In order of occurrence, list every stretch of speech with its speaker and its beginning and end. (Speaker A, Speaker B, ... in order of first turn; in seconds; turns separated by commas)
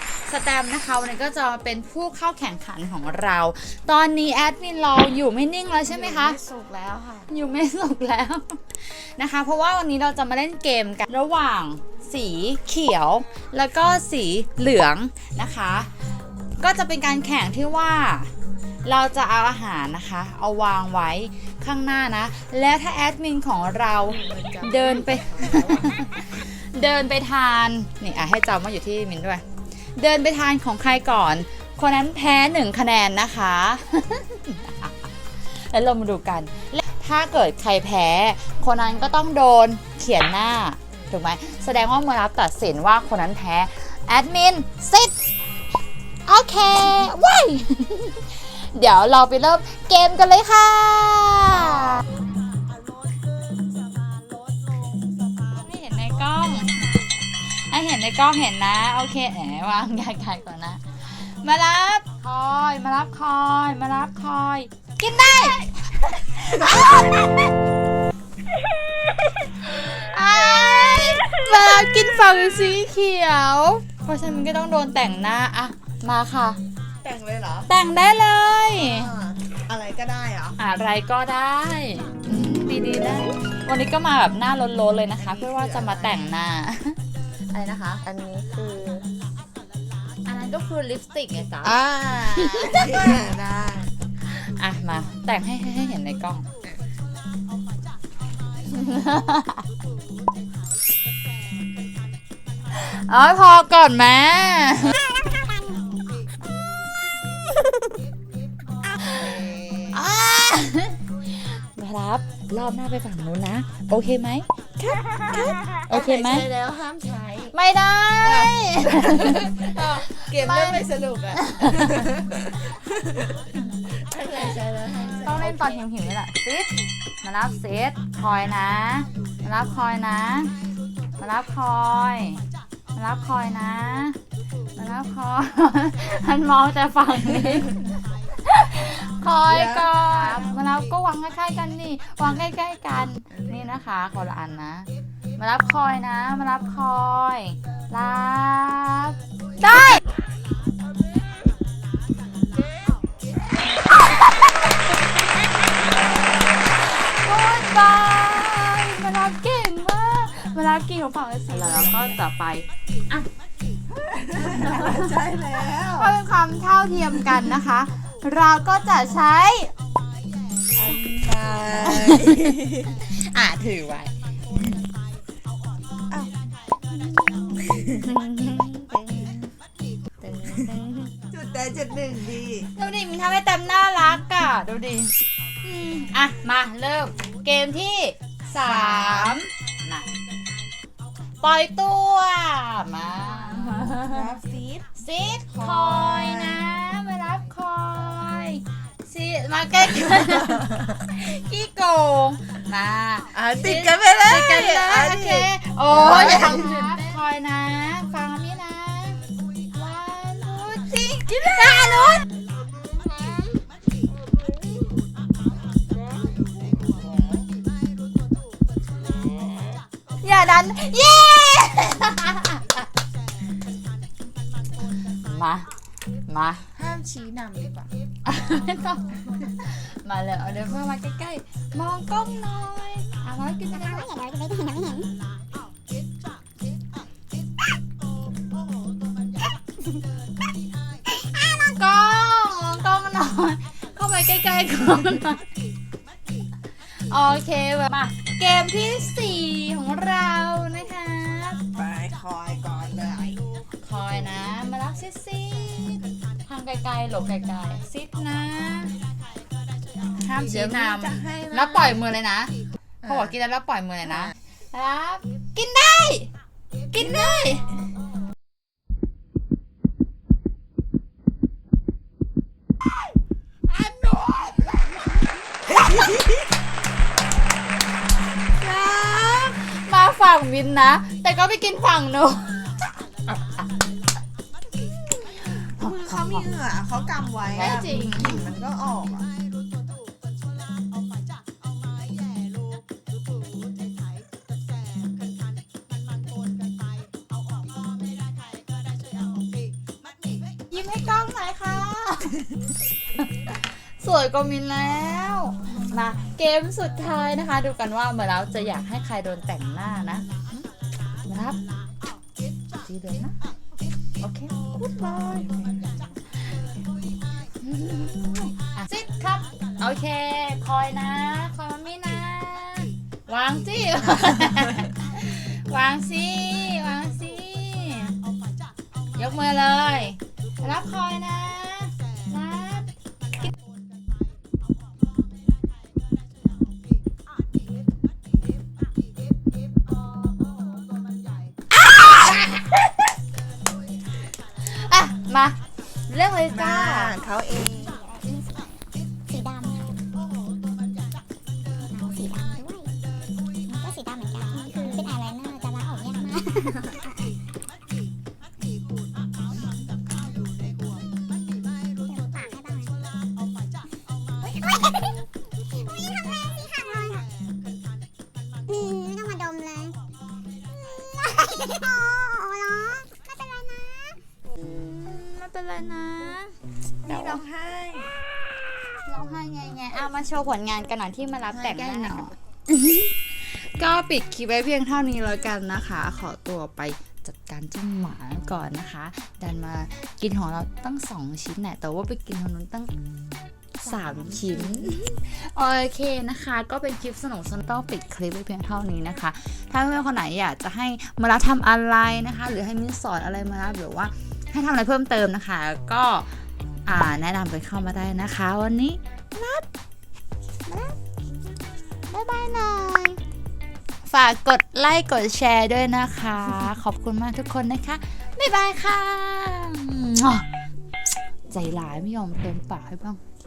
Speaker A: 0.3-6.4, Speaker B: 5.8-7.3, Speaker A: 7.3-15.9, Speaker A: 16.6-18.3, Speaker A: 18.8-29.4, Speaker B: 24.1-25.9, Speaker A: 29.9-45.1, Speaker A: 46.2-52.0, Speaker A: 55.5-67.5, Speaker A: 69.6-76.6, Speaker B: 77.0-77.7, Speaker A: 77.7-79.1, Speaker B: 78.6-80.6, Speaker A: 80.6-87.0, Speaker B: 85.2-86.4, Speaker A: 87.5-88.1, Speaker B: 88.1-89.0, Speaker A: 90.2-93.2, Speaker B: 91.6-93.9, Speaker A: 94.3-96.5, Speaker A: 98.7-99.6, Speaker A: 102.7-105.0, Speaker C: 104.9-106.2, Speaker B: 109.0-110.0, Speaker A: 109.9-116.5, Speaker B: 115.0-117.5, Speaker A: 117.5-120.8, Speaker B: 118.2-123.3, Speaker A: 121.5-122.0, Speaker B: 124.0-125.7, Speaker A: 125.2-130.5, Speaker A: 131.2-132.4, Speaker A: 132.9-134.2, Speaker A: 134.7-150.0, Speaker B: 139.4-140.5, Speaker B: 143.3-143.7, Speaker A: 157.2-163.3, Speaker B: 161.6-162.1, Speaker B: 164.0-166.1, Speaker A: 164.7-165.0, Speaker A: 165.9-169.7, Speaker B: 170.7-172.9, Speaker A: 171.8-174.1, Speaker A: 176.9-179.5, Speaker B: 177.6-178.1, Speaker A: 180.2-181.1, Speaker B: 181.3-182.7, Speaker A: 182.8-185.1, Speaker A: 185.6-190.1, Speaker B: 188.5-189.4, Speaker A: 191.4-194.1, Speaker B: 193.7-194.9, Speaker A: 195.0-212.2, Speaker B: 195.5-196.6, Speaker B: 203.3-206.8, Speaker C: 212.9-213.6, Speaker A: 220.2-222.9, Speaker A: 225.2-225.7, Speaker A: 226.3-226.6, Speaker B: 226.8-227.9, Speaker A: 228.2-234.1, Speaker C: 233.7-235.1, Speaker A: 241.1-245.4, Speaker A: 247.1-251.6, Speaker B: 251.7-253.4, Speaker A: 253.8-259.0, Speaker A: 260.2-266.3, Speaker B: 260.4-262.0, Speaker A: 266.9-267.6, Speaker B: 266.9-267.4, Speaker A: 278.6-282.7, Speaker A: 283.3-283.7, Speaker A: 285.4-286.4, Speaker B: 285.8-289.3, Speaker A: 287.6-288.4, Speaker A: 300.7-302.4, Speaker A: 303.1-310.6, Speaker A: 311.3-311.6, Speaker A: 312.8-313.4, Speaker B: 314.2-316.2, Speaker A: 317.6-328.1, Speaker A: 329.1-333.5, Speaker A: 341.7-342.9, Speaker A: 344.6-347.2, Speaker B: 346.5-348.0, Speaker C: 347.6-348.7, Speaker C: 349.3-350.0, Speaker C: 351.8-352.9, Speaker C: 353.7-357.3, Speaker C: 362.1-363.0, Speaker C: 364.4-365.2, Speaker C: 365.8-367.2, Speaker C: 368.7-370.0, Speaker C: 370.7-374.2, Speaker A: 374.6-377.4, Speaker B: 377.1-378.1, Speaker A: 379.1-392.9, Speaker B: 381.5-382.3, Speaker A: 393.8-406.3, Speaker B: 393.8-394.9, Speaker A: 406.9-409.6, Speaker A: 410.7-411.0, Speaker A: 412.1-413.2, Speaker A: 414.1-420.5, Speaker A: 421.5-423.2